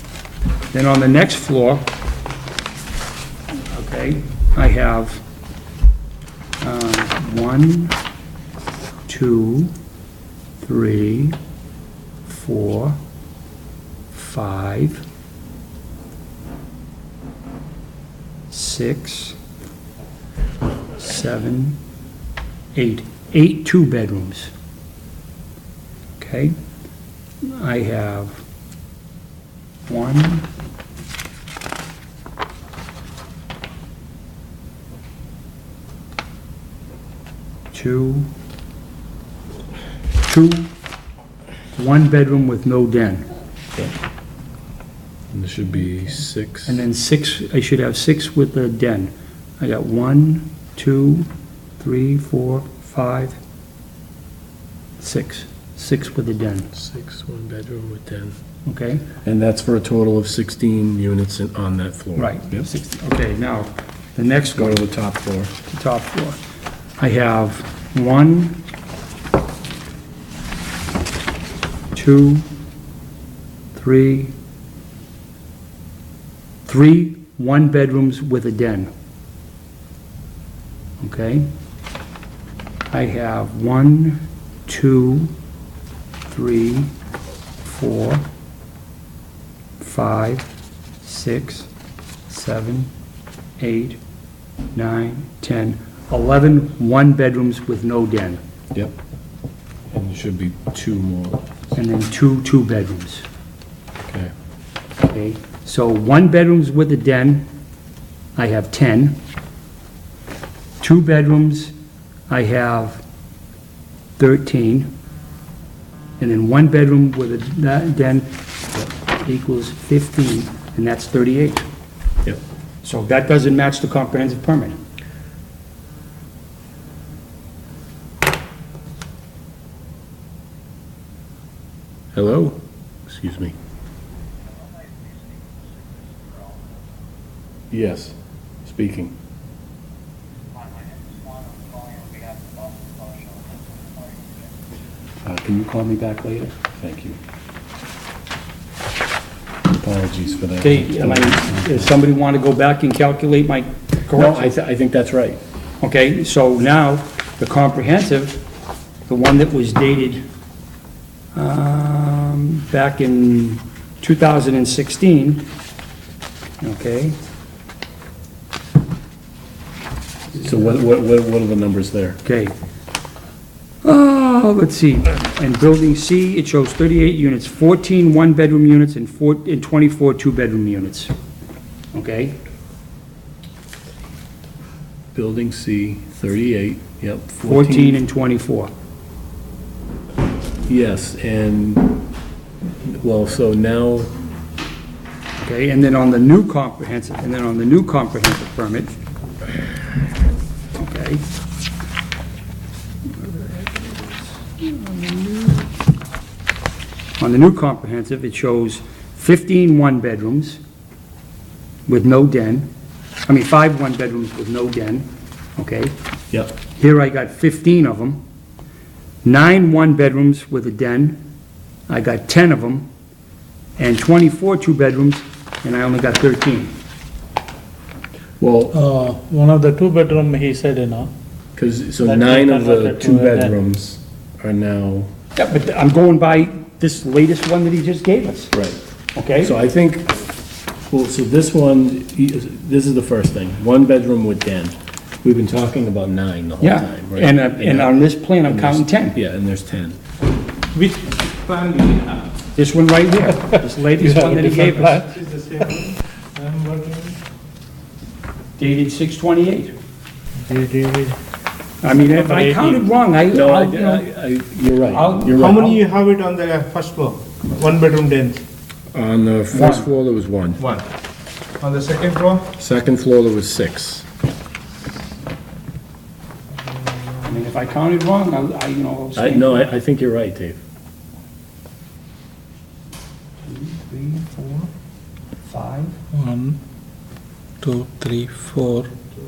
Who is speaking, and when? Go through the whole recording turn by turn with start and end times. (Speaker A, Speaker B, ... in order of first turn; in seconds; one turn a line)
Speaker A: 0.7-1.9
Speaker A: 3.7-5.2
Speaker A: 6.6-8.0
Speaker A: 9.1-9.7
Speaker A: 10.6-11.4
Speaker A: 12.2-13.0
Speaker A: 14.1-15.0
Speaker A: 18.5-19.4
Speaker A: 20.9-21.8
Speaker A: 22.7-24.5
Speaker A: 26.2-26.6
Speaker A: 27.4-28.4
Speaker A: 29.9-30.5
Speaker A: 37.7-38.3
Speaker A: 40.2-40.7
Speaker A: 41.8-43.2
Speaker B: 45.3-46.8
Speaker A: 46.6-53.4
Speaker A: 55.0-56.7
Speaker B: 56.7-58.4
Speaker A: 58.6-59.1
Speaker B: 59.2-62.7
Speaker A: 62.1-64.8
Speaker B: 64.5-65.5
Speaker A: 65.7-66.4
Speaker A: 67.0-68.6
Speaker A: 71.9-72.5
Speaker A: 73.7-74.3
Speaker A: 76.7-78.9
Speaker A: 81.0-81.5
Speaker A: 82.9-85.3
Speaker A: 86.2-86.9
Speaker A: 87.6-88.2
Speaker A: 89.8-90.5
Speaker A: 91.0-91.7
Speaker A: 92.3-92.9
Speaker A: 93.6-94.0
Speaker A: 94.7-98.4
Speaker B: 99.9-101.4
Speaker A: 101.7-103.2
Speaker A: 105.0-107.5
Speaker A: 108.3-109.2
Speaker A: 110.8-111.7
Speaker A: 112.3-113.0
Speaker A: 114.2-114.9
Speaker A: 116.2-121.7
Speaker A: 122.8-124.8
Speaker B: 132.1-133.5
Speaker B: 137.7-139.1
Speaker B: 145.3-145.8
Speaker A: 145.5-146.5
Speaker B: 146.5-147.2
Speaker B: 149.7-151.9
Speaker A: 150.6-154.5
Speaker B: 154.1-155.4
Speaker A: 155.8-158.4
Speaker A: 159.1-160.2
Speaker A: 161.3-165.5
Speaker A: 166.6-167.2
Speaker B: 170.3-172.2
Speaker A: 172.2-172.5
Speaker A: 173.8-181.1
Speaker A: 181.9-182.4
Speaker B: 185.1-188.0
Speaker A: 187.4-188.7
Speaker B: 190.7-192.0
Speaker B: 192.8-194.2
Speaker A: 195.4-198.9
Speaker A: 200.7-201.2
Speaker A: 203.1-205.7
Speaker A: 207.2-210.6
Speaker A: 211.9-212.7
Speaker A: 213.2-215.9
Speaker A: 216.7-218.2
Speaker A: 219.2-221.2
Speaker A: 221.9-222.9
Speaker A: 223.8-226.7
Speaker B: 228.4-228.8
Speaker C: 228.7-231.1
Speaker B: 231.6-235.1
Speaker C: 232.0-233.5
Speaker A: 235.3-238.5
Speaker B: 238.5-238.8
Speaker A: 239.1-239.5
Speaker B: 239.4-240.2
Speaker B: 240.9-250.0
Speaker A: 246.6-249.2
Speaker D: 250.7-252.3
Speaker A: 252.5-255.1
Speaker C: 253.9-255.1
Speaker D: 255.1-257.2
Speaker A: 258.6-259.7
Speaker D: 260.5-261.1
Speaker C: 260.5-260.9
Speaker A: 261.8-264.1
Speaker B: 263.3-265.7
Speaker A: 264.9-265.8
Speaker D: 265.3-268.4
Speaker B: 268.9-270.6
Speaker A: 269.5-269.9
Speaker D: 270.6-270.9
Speaker D: 271.6-272.5
Speaker B: 272.6-274.1
Speaker D: 276.9-277.2
Speaker A: 277.2-279.7
Speaker B: 279.1-280.6
Speaker A: 283.4-284.7
Speaker A: 285.4-286.0
Speaker C: 286.1-286.6
Speaker C: 287.6-288.9